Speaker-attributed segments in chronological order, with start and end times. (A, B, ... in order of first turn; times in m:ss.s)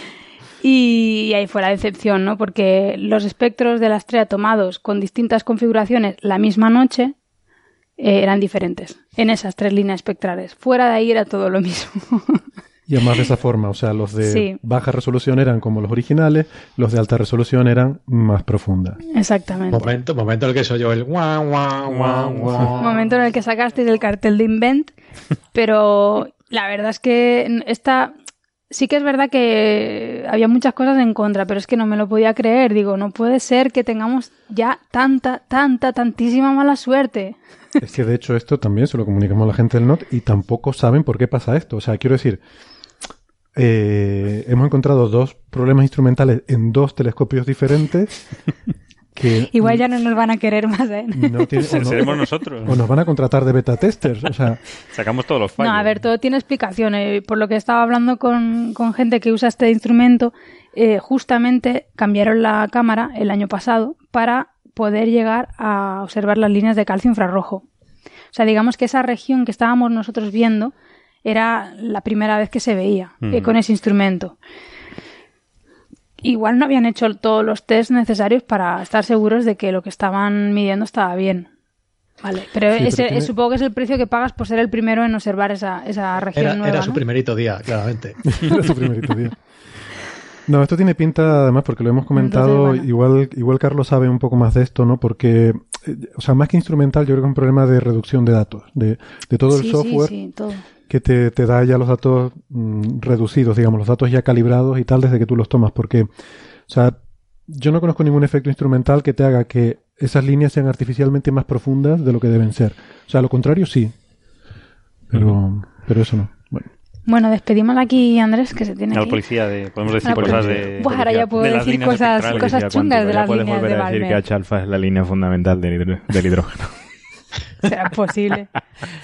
0:00.6-0:07.1 A
0:08.0-0:12.4 A
0:12.9-0:19.0 B
0:14.2-0:14.6 A
0:19.1-0:19.8 A
0:19.7-0:23.0 C
0:21.9-0:22.7 D
0:22.8-0:24.9 A
0:25.5-0:28.1 A
0:28.7-0:37.4 A
0:37.8-0:42.4 B
0:43.6-0:48.2 B
0:49.1-0:49.8 B
0:49.5-0:52.2 A
0:51.1-0:54.6 B
0:51.6-0:52.8 D
0:54.8-0:55.9 D
0:55.6-1:07.6 A
1:08.3-1:10.7 A
1:11.2-1:14.4 A
1:13.2-1:13.5 D
1:16.2-1:21.5 A
1:22.2-1:27.0 A
1:22.7-1:23.3 B
1:26.4-1:28.2 C
1:28.3-1:29.4 B
1:30.5-1:40.1 B
1:32.1-1:32.8 A
1:39.5-1:40.6 A
1:40.9-1:46.1 B
1:46.7-1:47.0 B
1:47.5-1:53.9 B
1:55.1-1:56.7 B
1:57.1-1:59.2 A
1:58.9-2:02.6 D
2:00.0-2:04.2 A
2:00.0-2:01.4 E
2:02.3-2:06.8 E
2:07.6-2:08.5 A